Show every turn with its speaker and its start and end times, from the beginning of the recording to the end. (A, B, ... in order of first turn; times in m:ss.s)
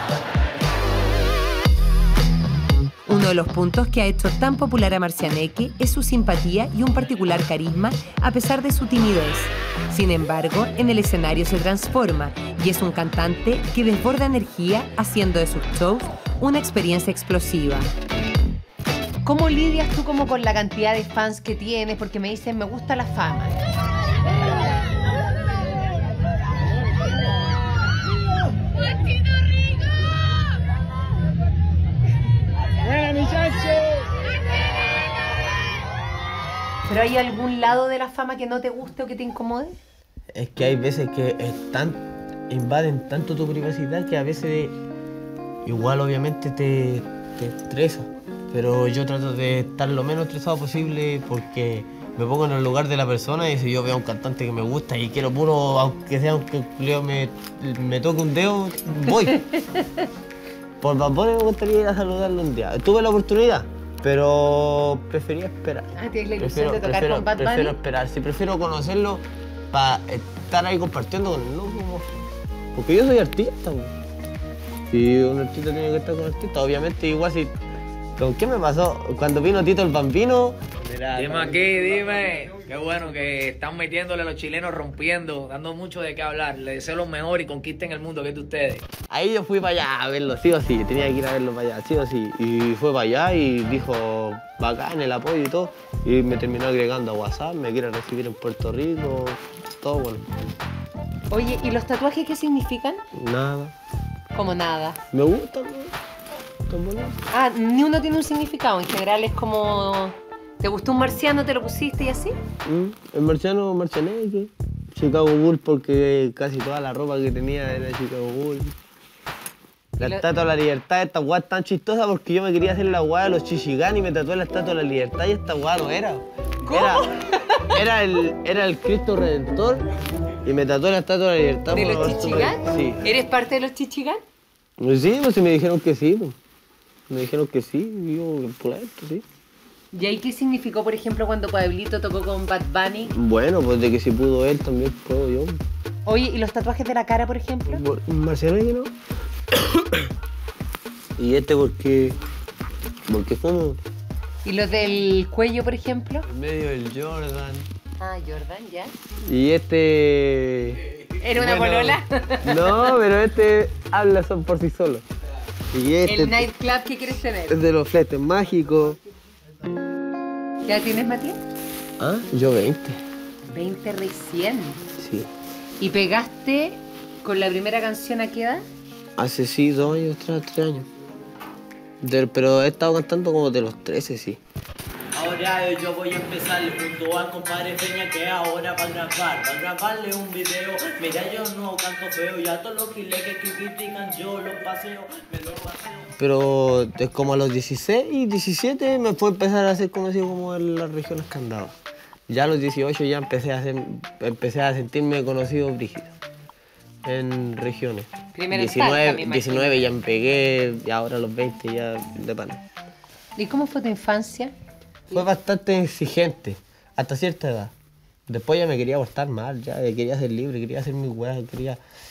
0:03.1-0:17.9 A
0:19.2-0:23.6 A
0:33.1-0:33.7 B
0:36.9-0:39.8 A
0:40.3-0:44.8 B
0:45.6-0:59.4 B
0:59.1-1:00.0 A
1:00.8-1:12.2 B
1:06.0-1:07.8 A
1:12.7-1:13.9 B
1:14.9-1:17.6 B
1:18.2-1:21.8 B
1:21.2-1:27.6 C
1:21.7-1:28.8 D
1:28.3-1:28.7 C
1:29.1-1:40.3 B
1:41.3-1:43.0 A
1:43.1-1:43.7 B
1:44.3-1:45.0 A
1:45.1-1:45.9 B
1:46.7-1:47.2 B
1:47.3-1:52.4 A
1:52.6-1:58.8 B
2:00.0-2:07.0 B
2:00.0-2:00.2 A
2:06.6-2:07.8 A
2:07.6-2:09.9 B
2:10.4-2:13.0 B
2:11.7-2:14.2 A
2:14.8-2:16.4 B
2:17.1-2:19.2 B
2:19.9-2:23.1 A
2:23.1-2:25.6 B
2:26.0-2:27.8 A
2:27.7-2:28.9 B
2:29.5-2:30.0 B
2:31.2-2:32.2 B
2:33.1-2:33.8 B
2:34.4-2:36.3 A
2:36.3-2:37.7 B
2:38.0-2:38.9 A
2:39.2-2:45.0 B
2:41.2-2:42.6 A
2:45.7-2:46.5 B
2:46.0-2:47.6 A
2:47.5-2:49.0 B
2:50.7-2:51.4 A
2:52.0-2:53.0 B
2:53.5-2:54.8 A
2:55.0-2:55.3 B
2:55.8-2:58.6 A
2:59.2-3:00.9 B
3:02.0-3:04.4 B
3:05.2-3:13.3 C
3:16.2-3:21.7 B
3:22.3-3:26.1 B
3:27.0-3:32.6 B
3:28.3-3:30.0 A
3:33.4-3:34.5 A
3:35.1-3:37.7 B
3:38.3-3:41.8 B